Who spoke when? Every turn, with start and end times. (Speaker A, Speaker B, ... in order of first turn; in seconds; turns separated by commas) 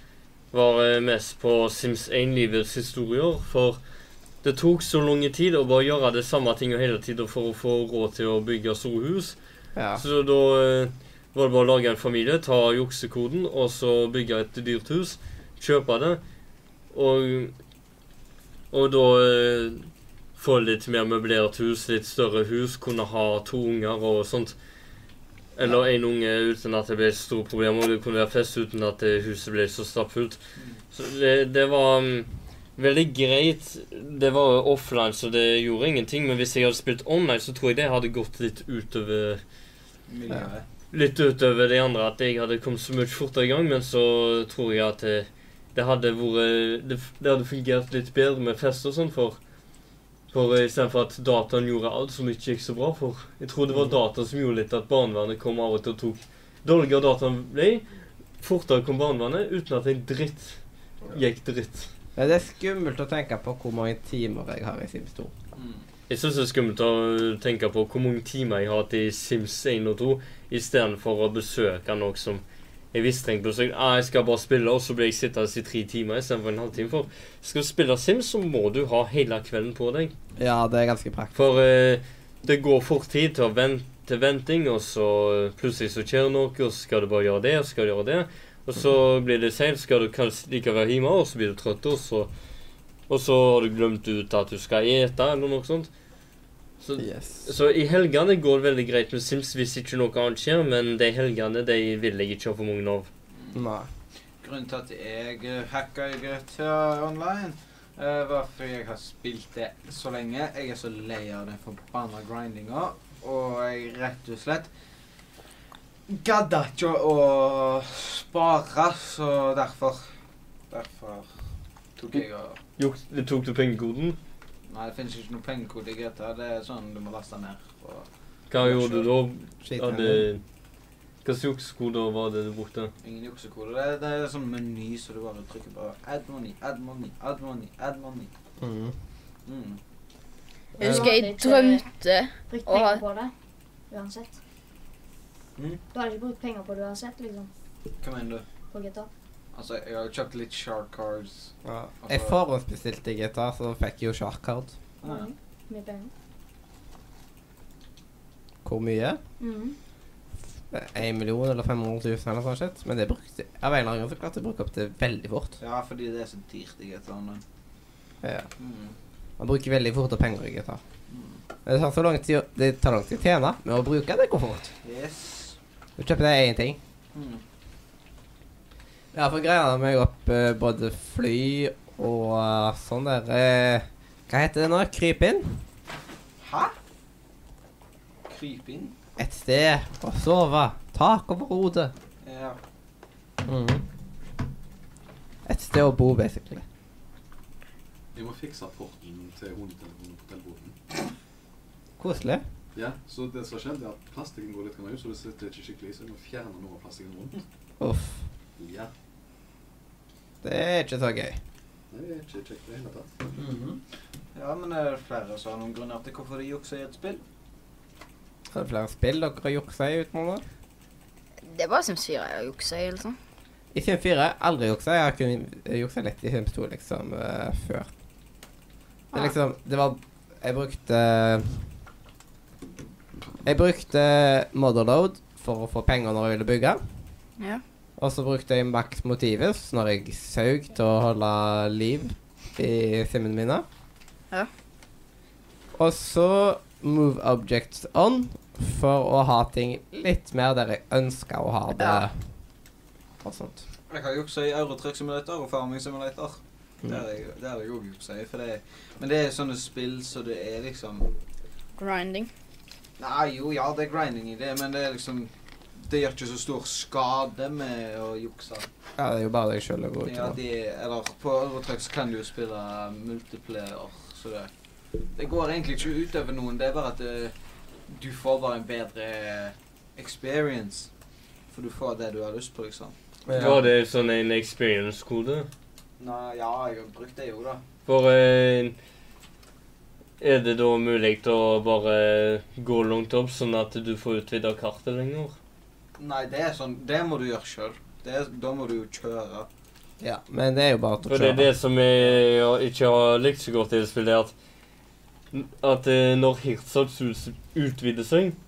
Speaker A: 0.5-3.8, Speaker A: 4.4-9.4, Speaker B: 9.8-10.0, Speaker A: 10.0-16.2, Speaker A: 16.9-17.5, Speaker A: 18.7-24.6, Speaker A: 25.6-30.4, Speaker A: 30.9-39.4, Speaker C: 40.1-40.6, Speaker A: 40.9-49.4, Speaker A: 50.3-57.9, Speaker A: 58.4-60.6, Speaker A: 61.1-61.9, Speaker B: 62.2-65.3, Speaker C: 65.5-65.8, Speaker A: 66.1-80.1, Speaker B: 80.4-81.4, Speaker A: 81.3-92.3, Speaker A: 93.1-95.9, Speaker A: 96.8-103.1, Speaker B: 97.0-97.5, Speaker B: 103.5-103.9, Speaker C: 104.4-114.7, Speaker C: 116.1-120.1, Speaker C: 120.7-121.3, Speaker C: 122.0-122.6, Speaker A: 122.8-124.2, Speaker C: 124.7-128.1, Speaker A: 128.5-130.4, Speaker C: 128.6-129.1, Speaker B: 129.6-130.3, Speaker A: 131.2-132.9, Speaker C: 133.0-138.3, Speaker B: 138.6-138.9, Speaker C: 139.5-139.8, Speaker B: 140.8-141.1, Speaker D: 140.8-141.9, Speaker E: 140.8-143.0, Speaker D: 142.5-143.3, Speaker D: 143.9-144.4, Speaker D: 145.9-147.5, Speaker C: 148.0-148.4, Speaker D: 148.7-149.1, Speaker C: 149.5-152.4, Speaker B: 151.7-154.7, Speaker C: 155.0-155.3, Speaker D: 155.0-156.1, Speaker B: 158.7-159.2, Speaker D: 159.4-159.8, Speaker B: 160.7-165.6, Speaker C: 165.6-167.4, Speaker B: 168.2-168.5, Speaker C: 168.6-168.9, Speaker B: 169.4-170.8, Speaker C: 171.1-171.4, Speaker B: 171.7-174.7, Speaker C: 174.8-175.6, Speaker B: 176.0-176.8, Speaker C: 177.1-177.4, Speaker B: 179.1-185.6, Speaker C: 186.4-186.7, Speaker C: 188.3-188.9, Speaker B: 189.2-191.9, Speaker C: 192.2-192.6, Speaker B: 193.4-193.8, Speaker B: 195.5-196.7, Speaker F: 198.2-200.8, Speaker B: 202.0-202.4, Speaker F: 202.8-207.4, Speaker B: 207.8-208.2, Speaker F: 208.6-208.9, Speaker B: 210.4-211.4, Speaker F: 211.9-213.1, Speaker B: 213.4-213.8, Speaker C: 214.3-217.2, Speaker B: 218.5-220.4, Speaker E: 221.4-223.2, Speaker B: 223.7-227.9, Speaker B: 229.1-231.7, Speaker B: 233.4-236.8, Speaker B: 238.0-243.7, Speaker B: 245.8-252.2, Speaker E: 251.8-252.0, Speaker B: 253.2-253.6, Speaker C: 253.9-261.1, Speaker E: 261.8-262.3, Speaker C: 263.0-268.7, Speaker B: 269.0-270.4, Speaker C: 270.1-274.5, Speaker C: 275.1-277.3, Speaker C: 277.9-280.9, Speaker C: 281.5-283.6, Speaker B: 283.3-283.7, Speaker A: 283.3-285.5, Speaker C: 286.0-287.6, Speaker A: 287.9-288.8, Speaker A: 290.2-295.4, Speaker C: 296.0-299.5, Speaker B: 300.0-301.5, Speaker A: 301.1-304.3, Speaker A: 305.3-308.4